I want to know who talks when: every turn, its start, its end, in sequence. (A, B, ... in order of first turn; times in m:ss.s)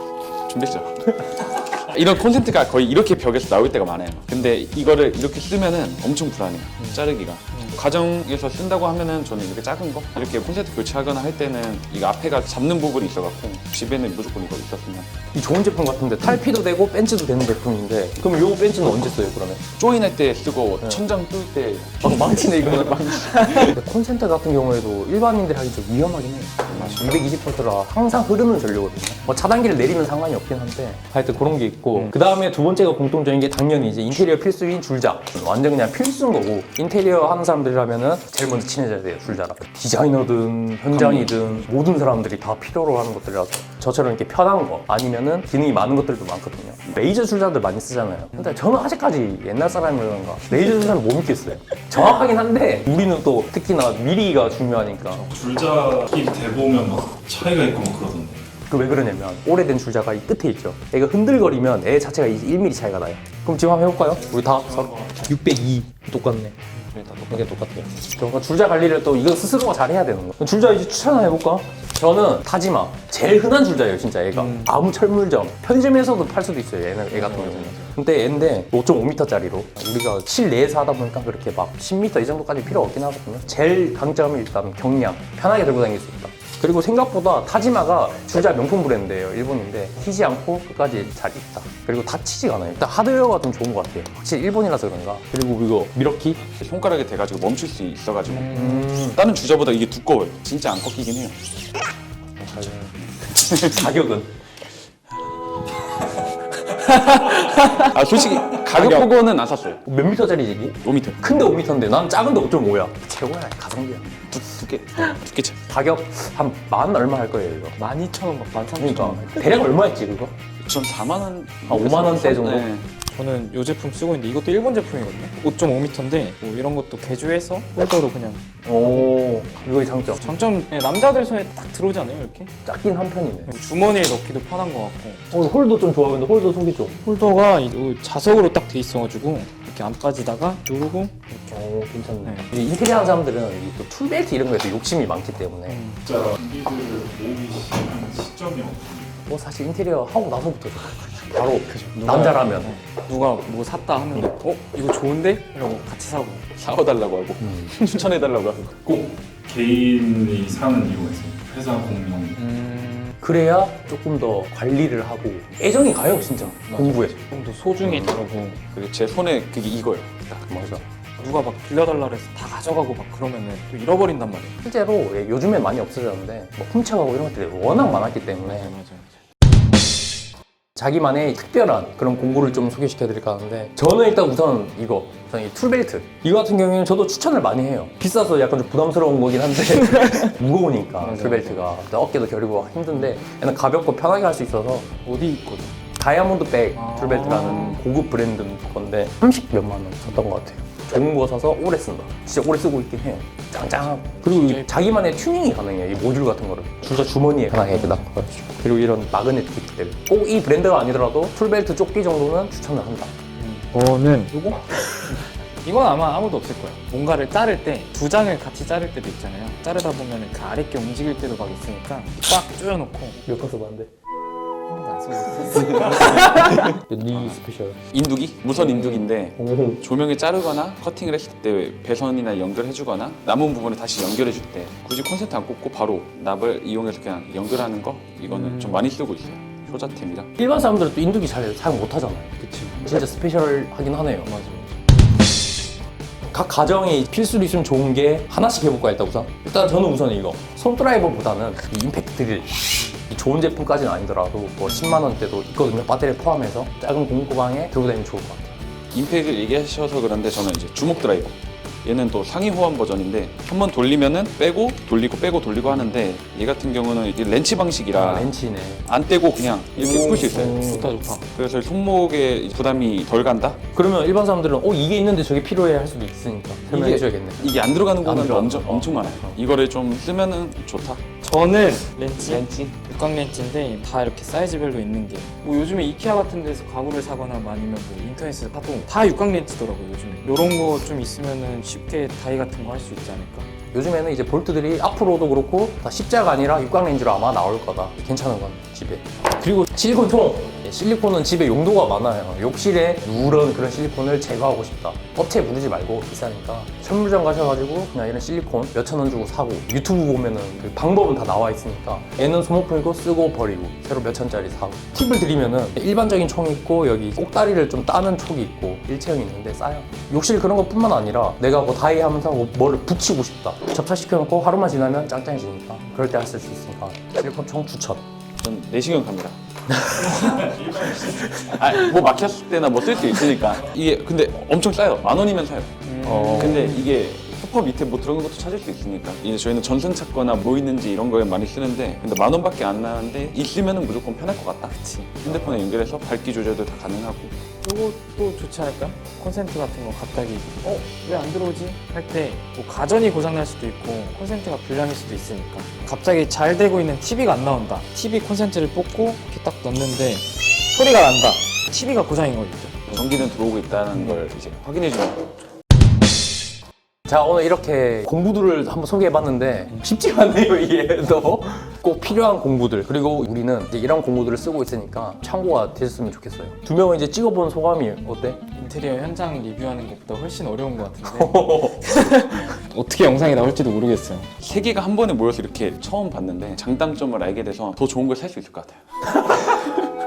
0:00.5-0:15.1 A
0:15.3-0:19.6 B
0:19.8-0:23.8 A
0:22.0-0:55.2 B
0:41.0-0:41.5 C
0:55.0-0:55.3 C
0:55.3-0:58.5 D
0:58.7-1:36.4 B
1:04.2-1:05.3 D
1:07.0-1:07.4 D
1:14.3-1:14.7 C
1:17.1-1:17.9 C
1:36.6-1:41.4 A
1:38.3-1:38.9 C
1:38.5-1:39.2 B
1:42.4-1:44.4 B
1:43.3-1:43.9 A
1:46.8-1:47.8 C
1:47.8-1:49.8 A
1:48.8-1:49.1 B
1:49.8-1:54.1 B
1:50.8-1:51.4 A
1:54.3-1:55.6 A
1:55.7-1:57.8 B
1:57.8-1:59.7 C
1:58.8-2:00.3 B
2:00.6-2:02.9 A
2:01.7-2:02.7 B
2:03.1-2:08.4 C
2:08.6-2:10.3 B
2:10.2-2:12.5 C
2:12.6-2:13.5 B
2:13.5-2:15.3 C
2:15.3-2:17.0 B
2:17.0-2:21.4 C
2:21.4-2:25.8 B
2:22.2-2:22.5 C
2:25.7-2:26.1 C
2:26.0-2:29.1 D
2:29.3-2:32.7 B
2:31.7-2:36.5 C
2:36.6-2:38.8 A
2:37.4-2:37.7 B
2:38.8-2:42.4 D
2:42.4-2:43.1 C
2:43.2-2:47.2 B
2:46.7-2:48.6 C
2:47.8-2:48.2 B
2:48.7-2:50.7 A
2:50.5-2:50.8 B
2:51.2-2:54.6 C
2:54.6-2:58.7 B
2:57.7-2:59.1 C
3:00.8-3:15.0 B
3:11.0-3:11.6 C
3:15.0-3:15.7 C
3:16.0-3:33.1 B
3:16.8-3:17.8 C
3:24.2-3:25.0 C
3:27.7-3:28.0 C
3:33.4-3:43.2 C
3:43.2-3:43.9 B
3:44.7-3:46.6 C
3:45.7-3:47.8 B
3:47.1-3:47.4 A
3:47.9-4:00.3 A
3:48.6-3:49.8 B
3:58.3-3:58.9 C
4:00.4-4:04.3 B
4:02.4-4:02.8 C
4:04.2-4:04.8 C
4:06.3-4:18.6 B
4:14.7-4:15.1 C
4:18.9-4:28.3 A
4:27.9-4:28.9 B
4:28.9-4:30.7 A
4:29.8-4:31.2 C
4:30.2-4:30.9 B
4:31.4-4:33.6 A
4:33.7-4:39.4 B
4:36.7-4:41.0 A
4:41.2-4:53.5 C
4:42.2-4:42.7 B
4:53.7-5:28.0 B
5:28.4-5:29.4 A
5:29.7-5:31.6 B
5:30.4-5:31.3 D
5:31.4-5:35.8 A
5:35.9-5:36.9 C
5:36.0-5:36.7 B
5:36.3-5:47.4 A
5:44.7-5:45.6 C
5:47.6-6:02.9 C
6:02.9-6:05.2 A
6:07.1-6:18.4 B
6:18.6-6:24.3 C
6:21.0-6:22.1 B
6:24.4-6:29.8 A